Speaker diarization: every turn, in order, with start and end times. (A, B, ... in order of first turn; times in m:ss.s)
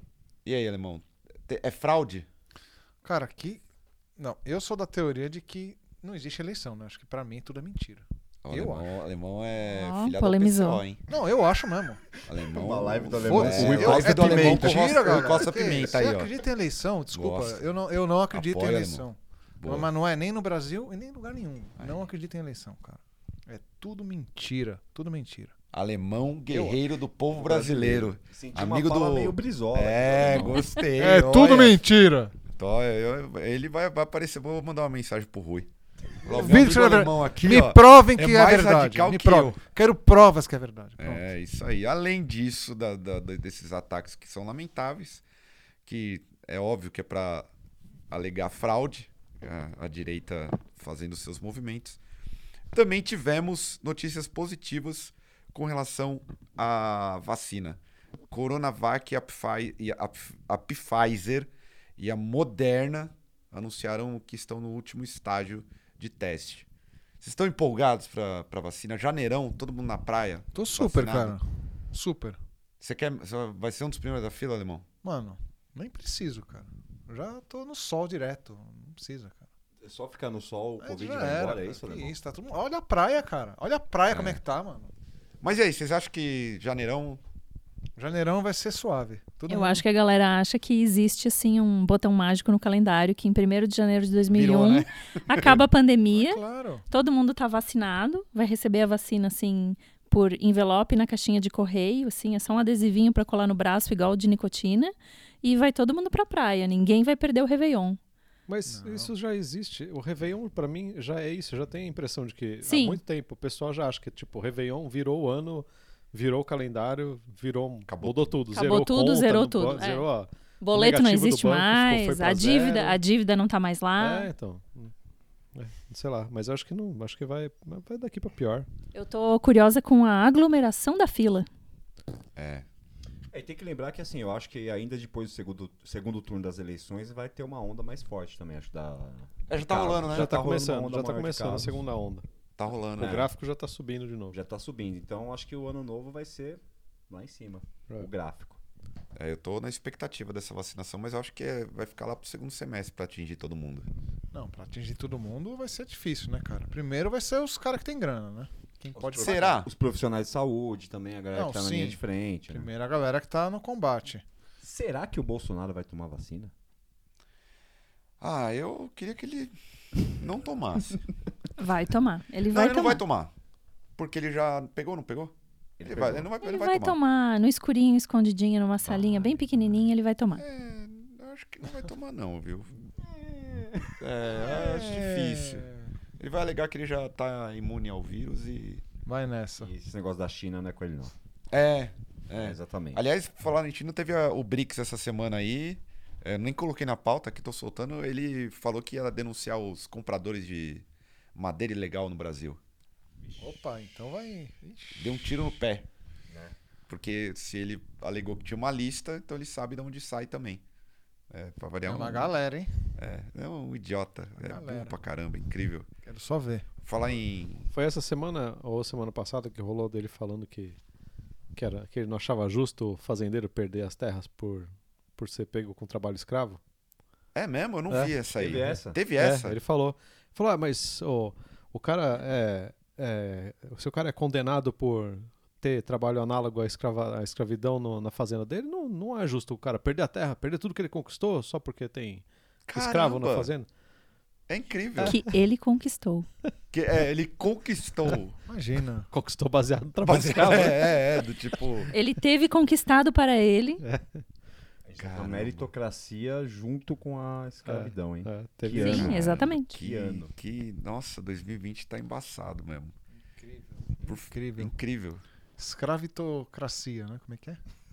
0:00.4-0:02.3 A
0:03.0-0:03.6 B
0:04.2-0:08.9 B
0:08.4-0:11.0 A
0:09.7-0:10.8 C
0:11.1-0:12.0 B
0:12.2-0:16.3 A
0:12.5-0:15.5 D
0:13.2-0:25.5 B
0:17.1-0:17.6 A
0:18.3-0:19.0 A
0:19.6-0:19.9 A
0:25.7-0:31.8 A
0:26.5-0:26.8 B
0:27.3-0:30.7 D
0:31.0-0:32.3 B
0:32.5-0:35.7 A
0:36.2-0:39.6 A
0:36.3-0:41.2 B
0:41.0-0:45.2 A
0:45.8-0:47.5 A
0:48.1-0:52.0 A
0:52.7-0:57.8 A
0:58.3-1:06.7 A
1:07.2-1:11.4 A
1:10.5-1:12.4 B
1:12.8-1:14.8 A
1:15.0-1:19.4 B
1:19.8-1:22.1 D
1:20.8-1:24.9 B
1:24.1-1:24.4 A
1:25.4-1:27.2 A
1:28.0-1:29.8 B
1:29.5-1:48.0 C
1:34.3-1:35.6 A
1:36.1-1:36.8 B
1:48.5-2:03.0 E
1:48.7-1:49.1 B
1:52.6-1:53.0 C
1:57.9-1:58.3 A
1:58.5-2:00.1 C
2:00.6-2:04.3 C
2:04.0-2:04.9 E
2:05.5-2:08.7 E
2:08.9-2:11.5 C
2:12.4-2:12.6 A
2:13.3-2:21.8 D
2:19.5-2:20.4 A
2:20.1-2:22.2 E
2:22.6-2:23.3 A
2:23.0-2:23.3 D
2:23.0-2:24.4 E
2:24.3-2:28.6 D
2:29.1-2:33.9 A
2:34.3-2:39.6 B
2:38.9-2:42.7 D
2:39.2-2:39.7 A
2:41.3-2:42.0 B
2:42.5-2:44.2 B
2:44.6-2:46.5 D
2:48.2-2:51.0 A
2:51.6-2:53.0 C
2:52.5-2:53.3 A
2:54.0-2:57.0 A
2:55.8-2:56.3 D
2:56.4-3:00.4 C
2:58.8-2:59.4 D
3:00.4-3:02.9 A
3:03.0-3:03.9 D
3:04.0-3:05.7 A
3:04.3-3:05.9 B
3:06.2-3:08.8 A
3:09.0-3:09.7 B
3:09.6-3:11.1 D
3:11.5-3:22.6 A
3:12.3-3:13.0 D
3:23.2-3:23.5 D
3:23.4-3:25.1 B
3:24.9-3:25.9 A
3:26.3-3:26.5 D
3:26.9-3:30.6 A
3:31.3-3:32.3 A
3:31.8-3:32.7 B
3:33.0-3:35.9 A
3:34.4-3:34.9 B
3:36.0-3:36.7 B
3:36.8-3:37.7 A
3:37.7-3:40.8 E
3:41.5-3:46.6 E
3:47.3-3:49.6 A
3:48.4-3:49.0 D
3:48.6-4:03.7 E
4:02.7-4:03.5 A
4:04.5-4:05.2 A
4:05.0-4:06.3 C
4:06.7-4:08.4 A
4:08.5-4:09.1 B
4:09.1-4:11.1 E
4:10.0-4:11.9 A
4:11.9-4:13.8 C
4:13.8-4:14.2 E
4:14.8-4:20.3 D
4:15.0-4:15.7 A
4:17.6-4:19.2 E
4:18.8-4:19.7 C
4:18.9-4:22.9 A
4:23.3-4:24.7 B
4:24.0-4:25.2 A
4:25.6-4:27.6 B